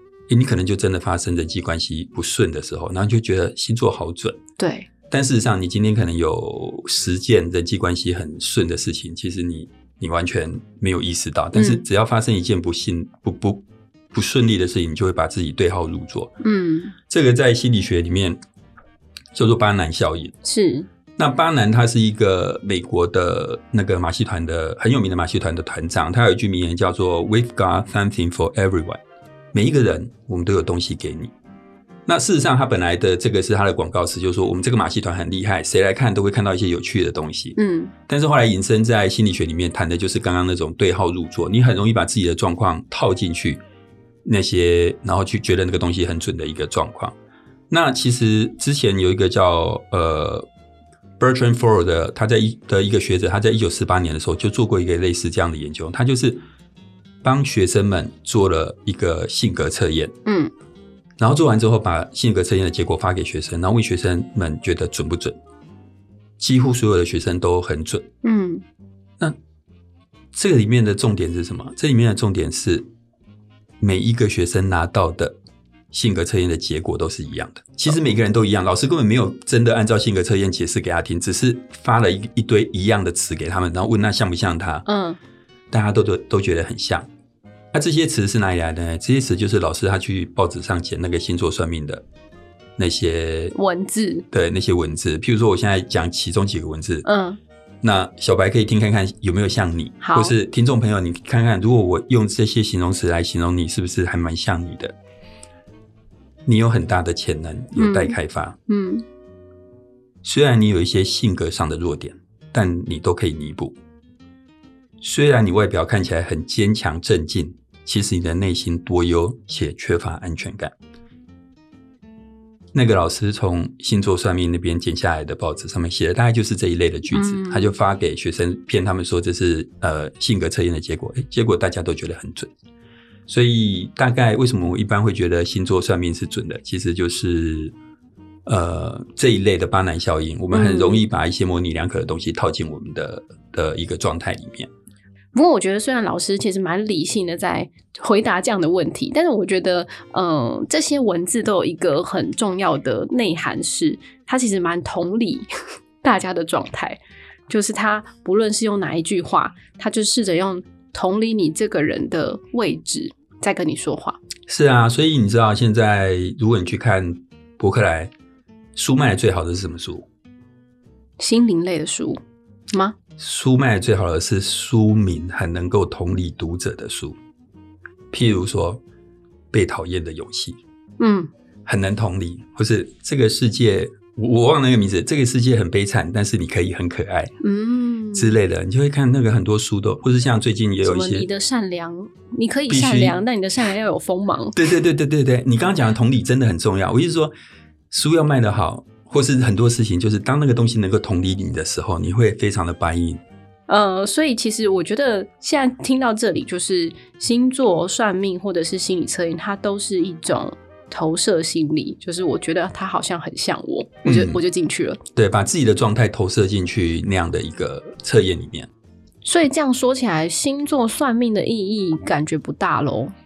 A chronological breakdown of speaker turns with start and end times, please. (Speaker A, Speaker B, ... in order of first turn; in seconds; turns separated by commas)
Speaker A: 0.3-4.4, Speaker B: 4.6-4.9, Speaker A: 5.1-16.3, Speaker B: 11.5-11.8, Speaker B: 16.4-16.9, Speaker A: 17.1-18.4, Speaker A: 19.3-20.3, Speaker B: 20.4-20.9, Speaker A: 21.2-29.0, Speaker A: 29.5-31.3, Speaker A: 32.1-37.6, Speaker B: 37.5-37.9, Speaker A: 38.1-43.6, Speaker A: 44.2-47.1, Speaker A: 47.7-50.5, Speaker A: 51.2-56.4, Speaker A: 57.2-60.1, Speaker B: 60.2-60.5, Speaker A: 61.2-65.4, Speaker A: 66.4-68.1, Speaker B: 68.2-68.6, Speaker A: 70.3-72.9, Speaker A: 73.8-75.4, Speaker A: 75.9-84.8, Speaker B: 84.8-85.2, Speaker A: 85.7-87.1, Speaker A: 87.7-92.0, Speaker A: 92.8-93.5, Speaker B: 93.5-94.2, Speaker A: 94.3-97.0, Speaker B: 97.0-97.4, Speaker A: 97.8-104.9, Speaker B: 100.0-100.3, Speaker A: 106.5-108.6, Speaker B: 107.8-109.0, Speaker A: 110.2-113.8, Speaker A: 115.0-120.7, Speaker A: 122.7-132.5, Speaker B: 127.1-127.7, Speaker A: 133.3-137.7, Speaker A: 138.4-144.7, Speaker B: 140.5-141.1, Speaker B: 145.3-155.5, Speaker B: 156.0-164.2, Speaker A: 164.5-168.1, Speaker A: 168.8-170.1, Speaker B: 171.2-172.2, Speaker A: 173.2-177.2, Speaker A: 178.1-178.8, Speaker A: 179.5-180.6, Speaker B: 181.0-181.3, Speaker A: 181.7-187.3, Speaker B: 187.4-188.3, Speaker A: 188.1-191.3, Speaker B: 190.8-194.6, Speaker A: 192.7-193.2, Speaker A: 194.5-197.3, Speaker A: 197.9-203.2, Speaker B: 203.7-215.0, Speaker A: 214.0-214.4, Speaker A: 215.1-218.7, Speaker B: 219.2-223.1